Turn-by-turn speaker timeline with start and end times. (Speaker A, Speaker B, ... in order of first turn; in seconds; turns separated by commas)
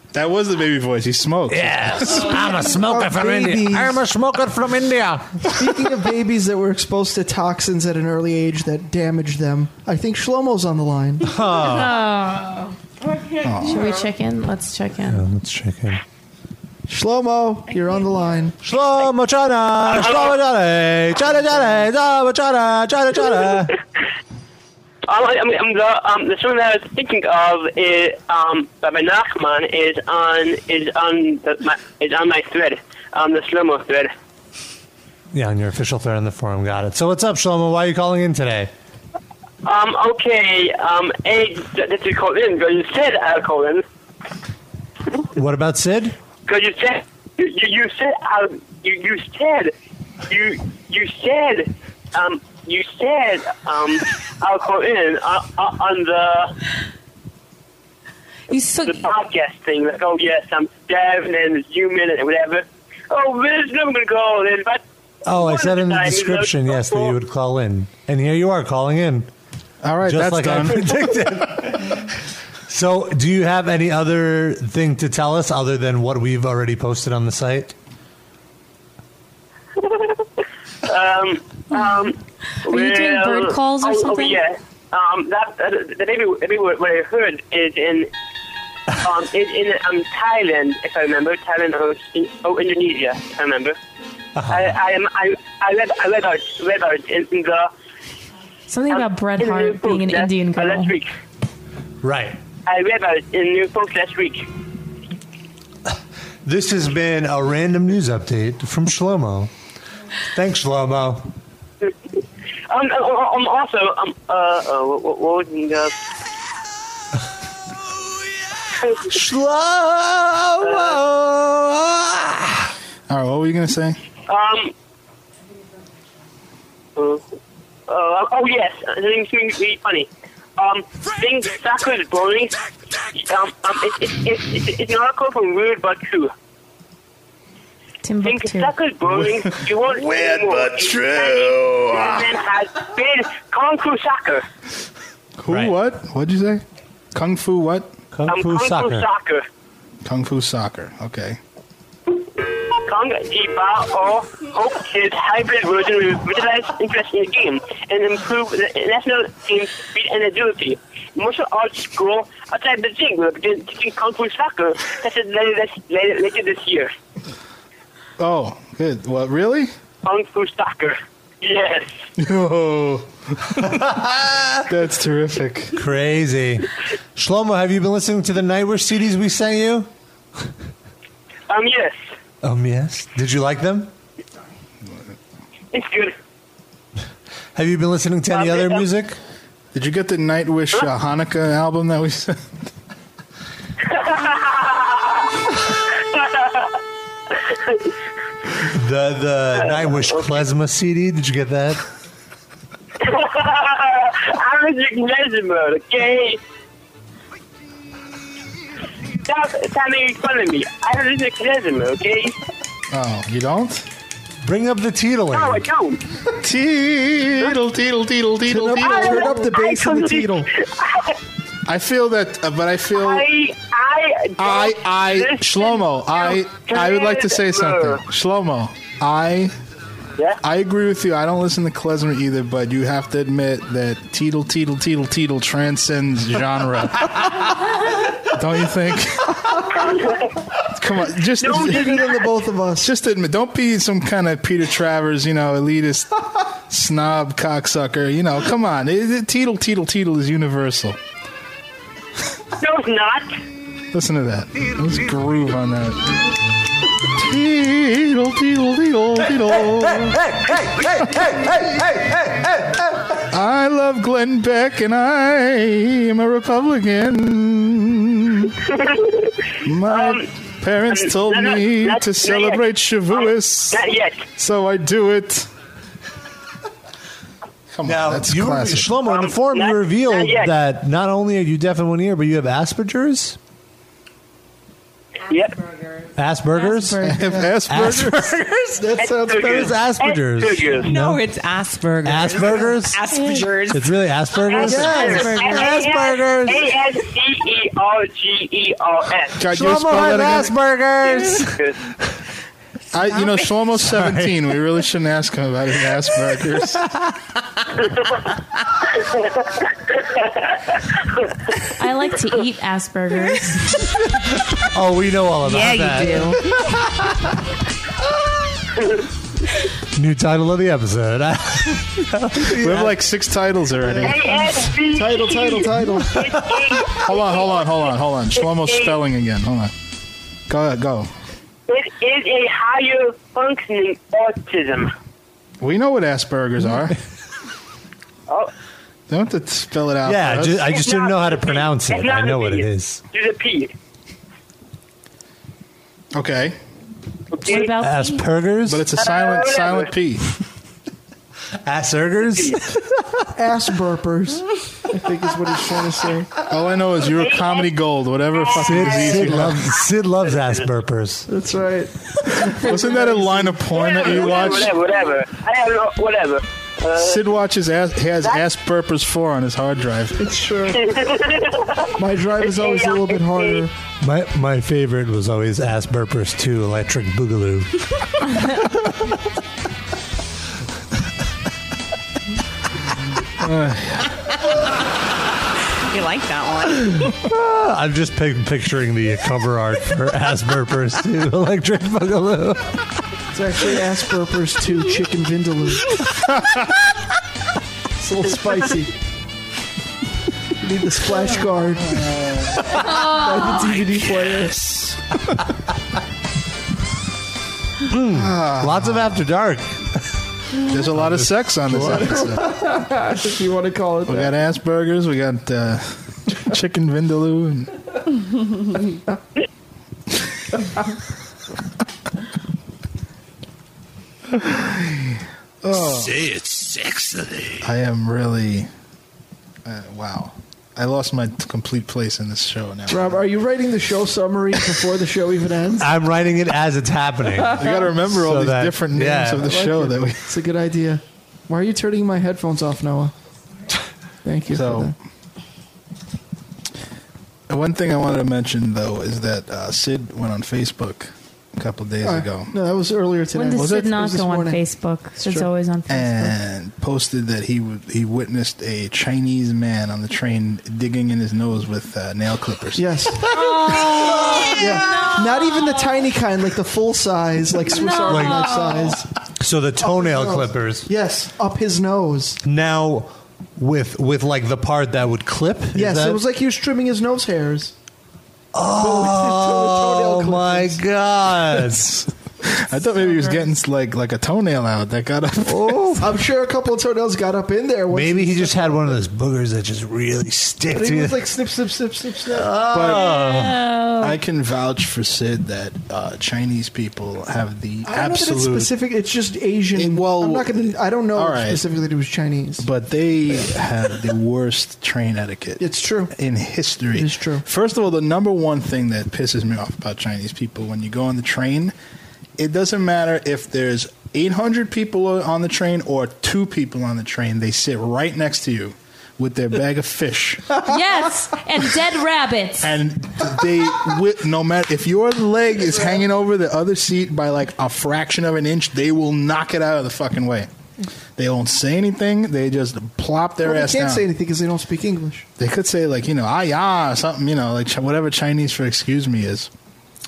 Speaker A: 0.1-2.4, Speaker B: 1.5-5.6, Speaker C: 2.7-4.0, Speaker C: 5.5-11.4, Speaker B: 11.2-12.0, Speaker D: 11.6-12.8, Speaker E: 13.0-14.1, Speaker A: 13.4-13.9, Speaker D: 13.6-15.2, Speaker B: 15.1-16.0, Speaker C: 16.9-18.6, Speaker E: 17.8-18.1, Speaker B: 18.6-23.7, Speaker F: 19.9-20.3, Speaker F: 25.0-34.1, Speaker B: 35.3-38.7, Speaker F: 39.6-43.8, Speaker B: 45.3-46.1, Speaker F: 46.5-49.7, Speaker F: 50.2-56.5, Speaker D: 58.5-59.1, Speaker F: 58.8-67.2, Speaker B: 65.2-69.3, Speaker A: 69.8-71.3, Speaker B: 70.0-72.1, Speaker B: 72.7-77.7, Speaker F: 79.8-80.2, Speaker F: 80.8-88.1, Speaker D: 82.7-84.4, Speaker F: 89.0-93.8, Speaker B: 94.3-94.8, Speaker F: 94.5-97.7, Speaker D: 98.7-100.9, Speaker F: 98.9-101.1, Speaker B: 102.0-102.4, Speaker F: 102.7-104.4, Speaker B: 106.4-109.5, Speaker B: 110.3-111.3, Speaker F: 112.7-116.0, Speaker F: 118.8-119.1, Speaker B: 119.0-122.7, Speaker F: 120.6-121.0, Speaker A: 123.1-124.0, Speaker F: 124.3-124.7, Speaker F: 127.0-127.2, Speaker F: 127.9-132.6, Speaker F: 133.1-136.3, Speaker D: 138.0-138.7, Speaker F: 138.2-144.4, Speaker A: 145.4-146.6, Speaker B: 145.5-145.8, Speaker A: 147.1-147.9, Speaker B: 148.1-149.1, Speaker F: 148.3-149.4, Speaker A: 150.0-151.4, Speaker F: 152.8-166.9, Speaker A: 168.2-169.7, Speaker F: 170.0-171.9, Speaker A: 172.2-173.9, Speaker B: 173.7-174.6, Speaker A: 174.7-175.8, Speaker B: 175.8-179.9, Speaker F: 181.5-182.0, Speaker B: 182.4-183.9, Speaker F: 185.7-186.1, Speaker B: 187.5-189.2, Speaker F: 188.3-188.9, Speaker A: 189.7-192.4, Speaker F: 193.9-195.5, Speaker F: 196.1-196.7, Speaker B: 198.7-201.8, Speaker F: 199.6-200.3, Speaker F: 203.0-206.4, Speaker F: 209.2-212.3, Speaker A: 212.9-213.8, Speaker B: 214.4-215.7, Speaker F: 215.3-216.0, Speaker A: 216.4-219.3, Speaker C: 218.5-220.5, Speaker F: 218.8-221.2, Speaker A: 221.7-223.2, Speaker F: 222.9-228.0, Speaker A: 224.4-229.5, Speaker A: 230.4-237.3, Speaker A: 238.3-239.4, Speaker F: 239.7-240.3, Speaker A: 240.7-242.0, Speaker F: 241.4-242.3, Speaker C: 241.6-242.9, Speaker A: 242.8-251.0, Speaker F: 252.6-253.4, Speaker A: 253.9-256.1, Speaker A: 257.1-260.3, Speaker B: 259.9-262.9, Speaker A: 263.3-268.5, Speaker F: 268.6-269.3, Speaker A: 269.6-275.5, Speaker F: 269.8-270.3, Speaker F: 270.9-274.2, Speaker A: 277.7-278.9, Speaker B: 277.8-283.4, Speaker F: 279.0-280.5, Speaker F: 285.3-285.6, Speaker B: 286.1-288.8, Speaker D: 286.5-287.2, Speaker A: 287.0-288.4, Speaker C: 287.1-287.6, Speaker C: 288.8-289.7, Speaker F: 288.9-290.9, Speaker B: 289.3-291.2, Speaker E: 290.8-293.9, Speaker B: 292.0-296.6, Speaker D: 293.1-293.5, Speaker F: 294.4-299.4, Speaker C: 294.6-295.5, Speaker D: 295.0-295.4, Speaker A: 299.4-300.5, Speaker B: 299.5-301.6, Speaker F: 301.0-301.8, Speaker A: 302.9-306.8, Speaker B: 303.7-304.4, Speaker B: 306.8-307.1, Speaker F: 308.9-311.0, Speaker D: 311.8-313.8, Speaker B: 314.6-317.1, Speaker E: 315.4-316.4, Speaker F: 318.8-319.0, Speaker B: 319.9-323.0, Speaker A: 322.4-324.3, Speaker C: 323.8-326.2, Speaker F: 324.0-327.8, Speaker B: 326.2-326.6, Speaker A: 327.0-329.7, Speaker F: 328.3-329.0, Speaker A: 330.5-331.1, Speaker F: 331.7-334.9, Speaker A: 335.6-337.0, Speaker A: 339.1-340.8, Speaker B: 340.0-343.0, Speaker F: 340.7-343.7, Speaker A: 346.1-346.6, Speaker F: 347.3-347.7, Speaker D: 347.4-348.2, Speaker B: 347.8-348.9, Speaker A: 348.7-350.3, Speaker F: 348.9-349.9, Speaker B: 351.6-353.2, Speaker C: 353.4-356.3, Speaker A: 356.4-359.6, Speaker F: 357.1-357.7, Speaker F: 358.3-360.6, Speaker B: 358.6-361.3, Speaker C: 361.3-363.6, Speaker A: 362.4-364.9, Speaker F: 363.7-367.2, Speaker A: 366.9-370.2, Speaker C: 370.2-370.8, Speaker F: 370.7-373.7, Speaker C: 372.0-373.7, Speaker B: 374.0-377.8, Speaker B: 378.3-378.9, Speaker A: 383.4-384.1, Speaker E: 385.9-387.1, Speaker B: 387.1-392.8, Speaker C: 393.3-395.9, Speaker C: 398.0-398.9, Speaker C: 400.6-402.1, Speaker A: 401.9-402.6, Speaker C: 402.6-404.8, Speaker D: 402.9-403.2, Speaker B: 407.8-410.1, Speaker A: 408.2-409.2, Speaker A: 410.6-412.7, Speaker B: 410.7-412.3, Speaker C: 411.9-414.3, Speaker A: 414.1-417.7, Speaker A: 424.4-426.2, Speaker A: 427.6-428.7, Speaker A: 429.6-433.2, Speaker C: 432.9-435.9, Speaker B: 435.8-439.5, Speaker A: 437.5-440.3, Speaker C: 439.4-443.1, Speaker C: 444.2-444.9, Speaker A: 444.5-444.9, Speaker A: 447.5-452.5, Speaker C: 452.0-454.6, Speaker D: 453.3-456.3, Speaker A: 453.6-454.0, Speaker C: 455.2-455.5, Speaker A: 455.9-462.8, Speaker C: 462.8-463.3, Speaker D: 463.3-466.0, Speaker B: 463.9-464.5, Speaker C: 464.4-469.1, Speaker D: 467.7-469.0, Speaker B: 468.1-468.6, Speaker B: 469.4-470.9, Speaker C: 469.8-472.4, Speaker B: 472.4-476.2, Speaker C: 475.7-477.7, Speaker B: 478.5-482.0, Speaker C: 478.7-480.8, Speaker A: 481.8-486.1, Speaker C: 485.4-489.0, Speaker B: 487.9-491.2, Speaker C: 490.7-492.7, Speaker B: 492.3-493.6, Speaker A: 492.7-493.1, Speaker D: 492.8-494.2, Speaker A: 494.0-498.7, Speaker C: 497.8-502.6, Speaker A: 499.7-501.6, Speaker A: 502.6-511.7, Speaker C: 505.6-506.1, Speaker C: 506.9-507.4, Speaker A: 512.4-520.6, Speaker D: 520.6-522.8, Speaker A: 522.6-530.5, Speaker A: 531.1-534.0, Speaker C: 533.4-535.2, Speaker A: 535.4-539.5